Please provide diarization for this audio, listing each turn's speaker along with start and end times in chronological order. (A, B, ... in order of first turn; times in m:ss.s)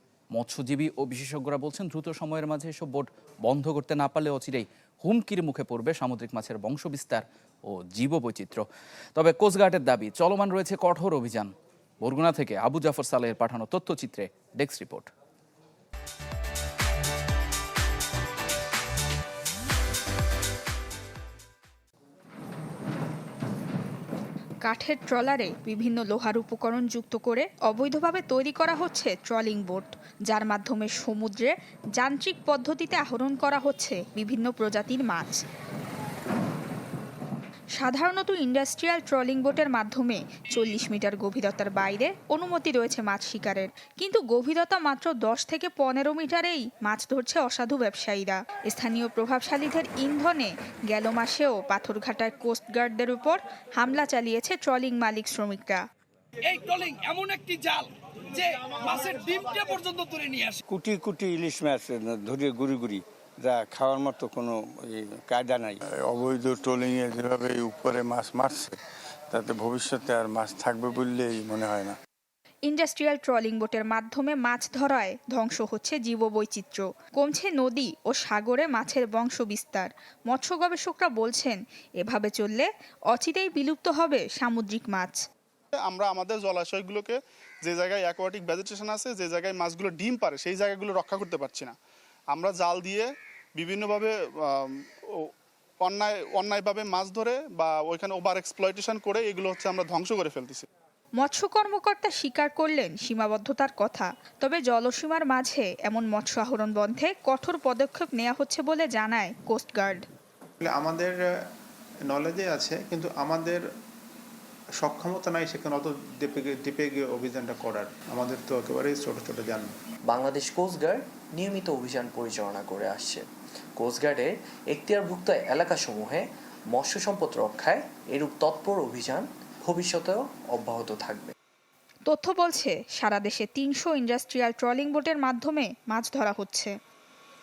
0:00.3-0:08.6 A
0:09.2-0:15.1 A
0:24.6-0:35.4 B
0:37.8-0:55.8 B
0:56.4-1:00.6 C
1:00.7-1:05.8 D
1:05.9-1:08.8 E
1:09.3-1:12.0 E
1:12.7-1:25.2 B
1:25.7-1:31.7 F
1:32.3-1:35.3 F
1:35.8-1:40.7 F
1:41.2-1:50.1 B
1:50.6-1:51.2 G
1:52.1-1:53.6 G
1:54.8-1:59.7 G
2:00.1-2:11.3 H
2:12.1-2:16.7 B